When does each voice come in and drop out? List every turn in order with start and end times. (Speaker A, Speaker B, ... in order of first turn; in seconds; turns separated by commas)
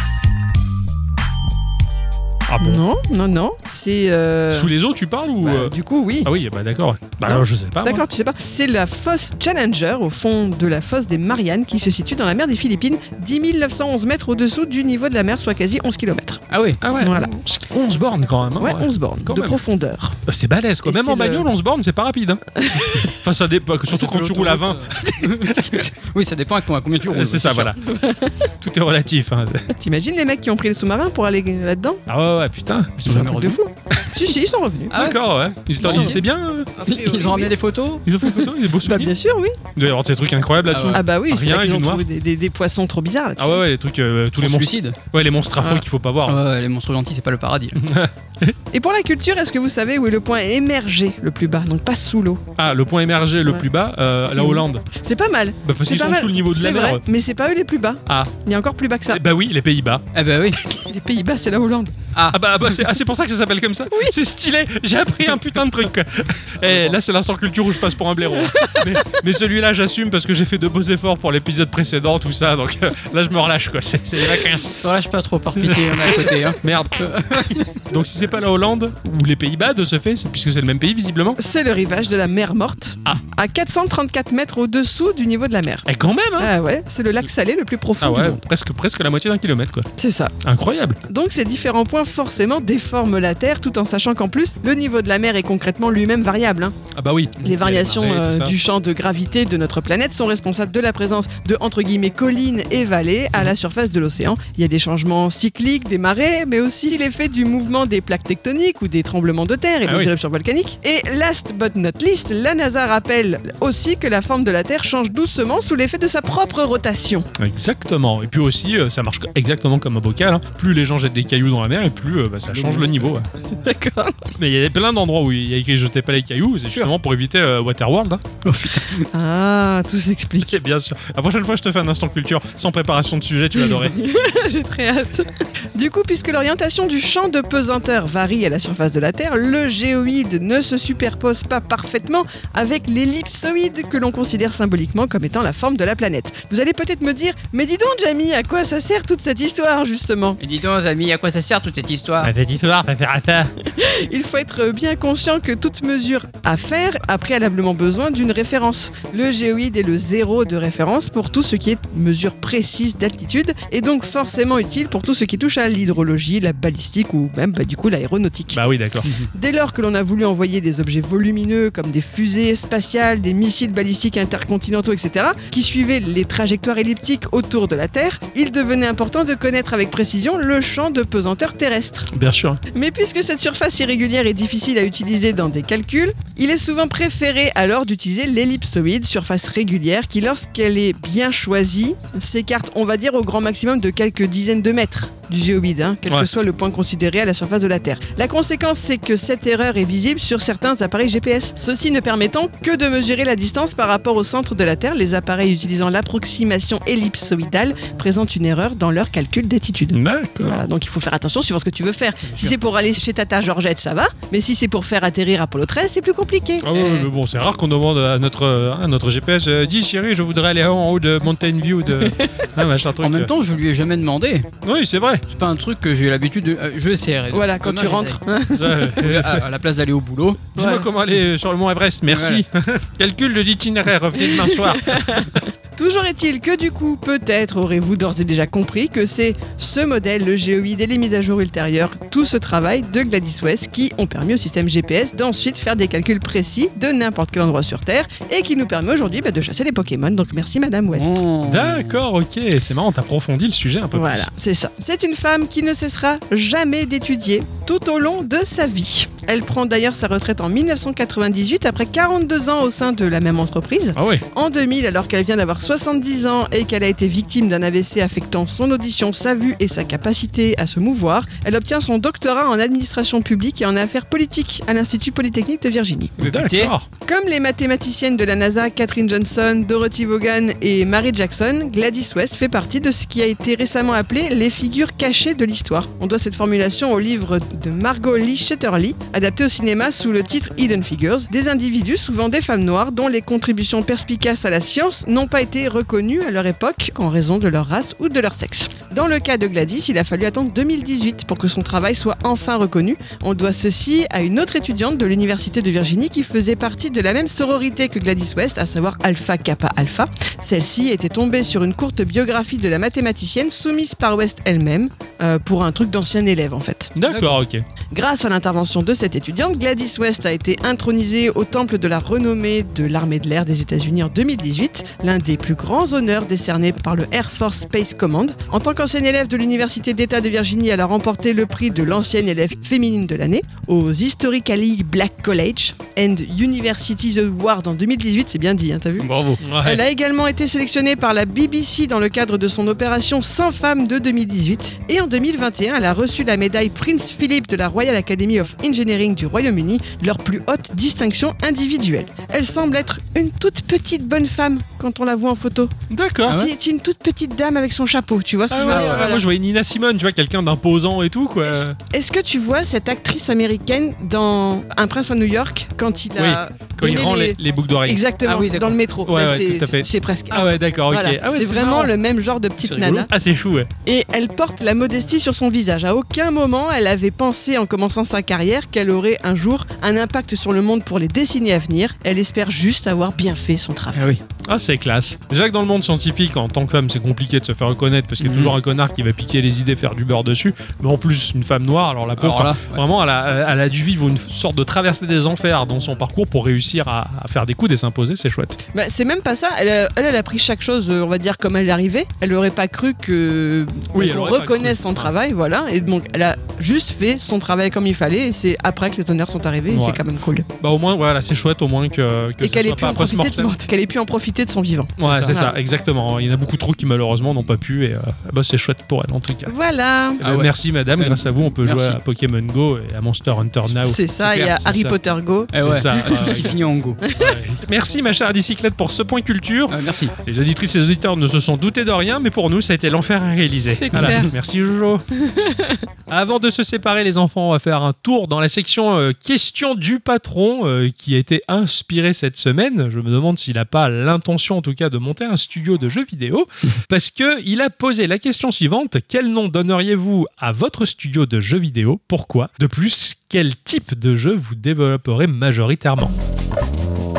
Speaker A: 2.5-2.8, Speaker B: 2.6-4.7, Speaker A: 4.5-8.1, Speaker B: 5.4-6.3, Speaker B: 7.2-16.4, Speaker C: 16.5-16.8, Speaker A: 16.8-19.6, Speaker B: 17.0-17.3, Speaker B: 18.6-20.2, Speaker A: 20.3-25.9, Speaker B: 20.9-21.5, Speaker B: 22.6-23.2, Speaker C: 23.9-27.8, Speaker A: 27.1-27.9, Speaker B: 27.9-28.4, Speaker A: 28.6-29.7, Speaker B: 29.8-32.0, Speaker A: 32.1-33.4, Speaker C: 33.0-33.6, Speaker B: 33.1-35.0, Speaker A: 34.9-36.7, Speaker C: 34.9-35.2, Speaker C: 35.8-36.2, Speaker B: 35.8-36.2, Speaker B: 36.8-37.5, Speaker C: 36.9-38.0, Speaker A: 38.0-39.1, Speaker B: 38.3-39.6, Speaker A: 39.8-42.0, Speaker C: 40.7-41.0, Speaker B: 40.9-43.6, Speaker A: 43.4-46.4, Speaker C: 44.4-45.0, Speaker C: 46.3-47.8, Speaker A: 47.8-48.6, Speaker B: 48.7-52.5, Speaker A: 52.6-54.8, Speaker B: 54.3-59.2, Speaker A: 55.6-57.0, Speaker A: 59.1-60.1, Speaker C: 60.1-60.6, Speaker B: 60.6-62.0, Speaker C: 62.1-62.4, Speaker A: 62.3-74.8, Speaker B: 63.9-64.2, Speaker C: 66.6-67.0, Speaker B: 68.6-68.8, Speaker C: 74.8-77.8, Speaker A: 75.6-81.4, Speaker B: 81.4-85.9, Speaker A: 85.9-86.5, Speaker B: 86.4-88.4, Speaker A: 88.0-89.9, Speaker B: 90.0-90.3, Speaker A: 90.4-91.0, Speaker B: 91.1-96.8, Speaker A: 96.9-98.6, Speaker B: 97.4-117.3, Speaker A: 109.8-110.1, Speaker A: 117.4-123.3, Speaker C: 122.5-123.0, Speaker B: 123.5-124.3, Speaker A: 124.4-128.3, Speaker C: 128.4-129.1, Speaker B: 129.1-130.5, Speaker A: 130.4-134.0, Speaker B: 133.6-150.4, Speaker C: 150.4-152.3, Speaker A: 152.2-153.5, Speaker B: 153.7-168.6, Speaker A: 168.5-169.1, Speaker B: 169.3-182.1, Speaker A: 182.1-182.6, Speaker B: 182.7-216.7, Speaker A: 209.9-210.7, Speaker A: 216.6-223.3, Speaker C: 216.7-217.1, Speaker B: 222.0-222.4, Speaker C: 223.0-224.5, Speaker A: 224.6-225.2, Speaker C: 225.3-228.2, Speaker B: 227.3-228.9, Speaker A: 228.5-229.5, Speaker C: 229.0-230.7, Speaker A: 230.6-235.4, Speaker B: 230.6-230.8, Speaker C: 232.1-232.4, Speaker B: 234.5-251.2, Speaker C: 250.9-252.0, Speaker A: 251.4-254.3, Speaker B: 253.9-276.2, Speaker A: 263.9-264.2, Speaker C: 276.2-276.7, Speaker A: 276.2-276.9, Speaker B: 277.1-316.9, Speaker A: 317.0-317.6, Speaker C: 317.1-317.4, Speaker B: 317.9-355.7, Speaker C: 339.0-339.4, Speaker A: 339.4-339.8, Speaker A: 355.9-356.4, Speaker C: 356.3-356.5, Speaker B: 356.3-359.2, Speaker A: 358.5-361.8, Speaker C: 358.7-359.2, Speaker B: 361.5-373.1, Speaker A: 366.1-368.0, Speaker C: 368.2-368.8, Speaker A: 369.1-371.9, Speaker A: 372.6-373.7, Speaker B: 373.9-384.1, Speaker C: 383.9-384.2, Speaker A: 384.5-398.6, Speaker C: 388.2-388.6, Speaker C: 392.2-392.8, Speaker B: 398.7-410.5, Speaker A: 403.9-405.1, Speaker A: 409.7-410.0, Speaker A: 410.6-413.6, Speaker B: 412.4-415.6, Speaker A: 415.0-419.5, Speaker C: 415.0-415.4, Speaker B: 419.5-420.2, Speaker A: 420.2-425.0, Speaker C: 420.2-422.0, Speaker B: 423.8-426.5, Speaker C: 425.5-427.0, Speaker A: 425.5-426.6, Speaker B: 427.0-427.4, Speaker A: 427.1-435.0, Speaker C: 429.7-430.1, Speaker B: 433.7-434.3, Speaker C: 433.9-434.2, Speaker B: 435.2-435.9, Speaker A: 436.1-456.1